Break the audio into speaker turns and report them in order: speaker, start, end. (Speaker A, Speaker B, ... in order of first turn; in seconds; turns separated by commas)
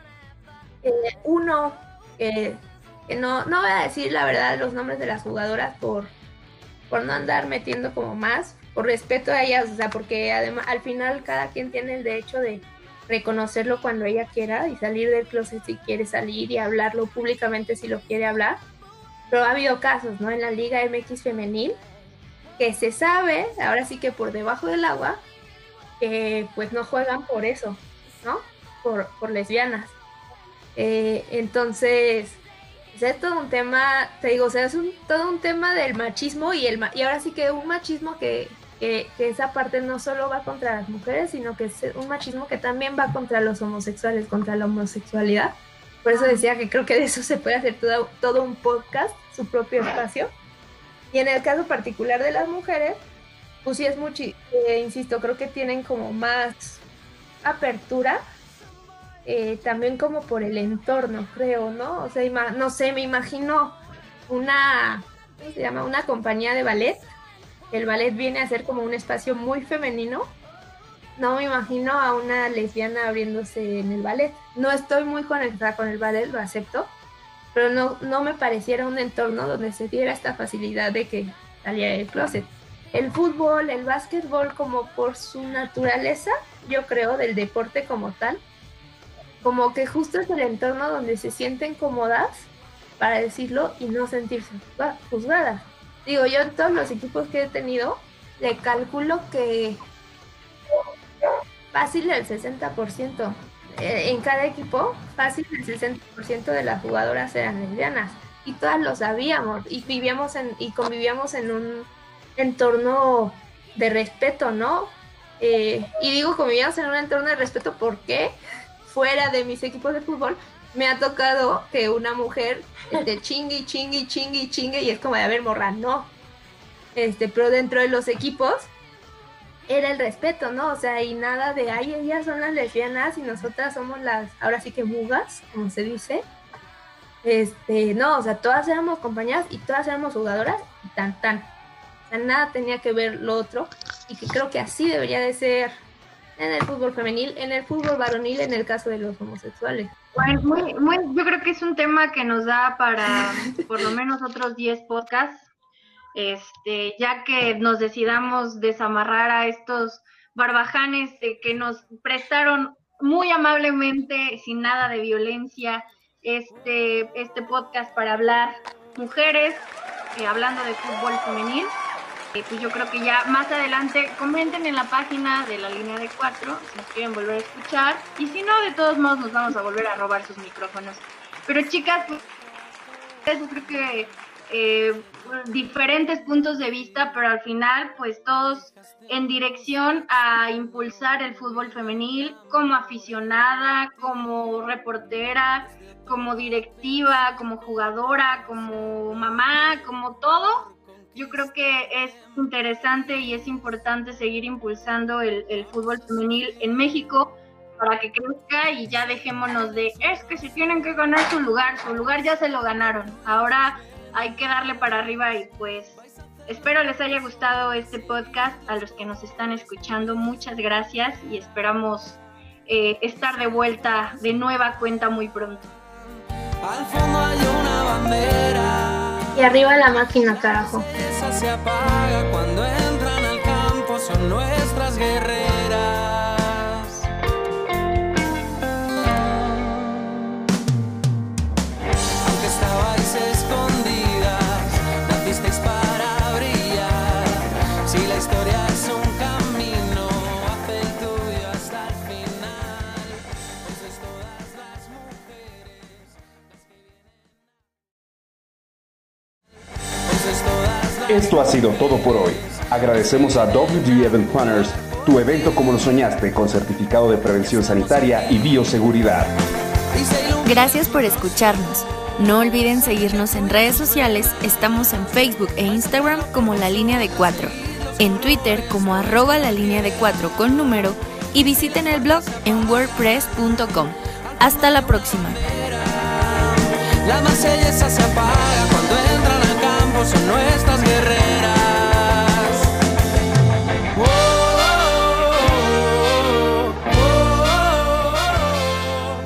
Speaker A: 0.8-6.1, Speaker A: 6.9-18.6, Speaker A: 19.3-21.8, Speaker A: 22.6-25.2, Speaker A: 26.0-29.9, Speaker A: 30.8-32.4, Speaker A: 32.9-50.3, Speaker A: 51.1-53.0, Speaker A: 53.6-56.8, Speaker A: 57.4-58.2, Speaker A: 59.2-67.0, Speaker A: 67.7-70.3, Speaker A: 71.2-76.9, Speaker A: 77.5-88.4, Speaker A: 89.4-99.8, Speaker A: 101.7-126.1, Speaker A: 126.9-128.7, Speaker A: 129.7-136.2, Speaker A: 137.2-141.5, Speaker A: 142.1-145.8, Speaker A: 146.4-149.9, Speaker B: 150.1-155.5, Speaker B: 156.1-171.7, Speaker B: 172.3-182.2, Speaker B: 183.2-225.7, Speaker C: 226.6-237.0, Speaker A: 229.3-230.8, Speaker C: 242.2-256.1, Speaker C: 260.1-261.6, Speaker D: 261.1-269.3, Speaker C: 269.9-273.9, Speaker E: 270.4-277.5, Speaker C: 276.1-279.3, Speaker E: 278.0-283.7, Speaker C: 281.4-283.2, Speaker E: 284.4-285.4, Speaker C: 284.4-292.7, Speaker C: 293.9-298.9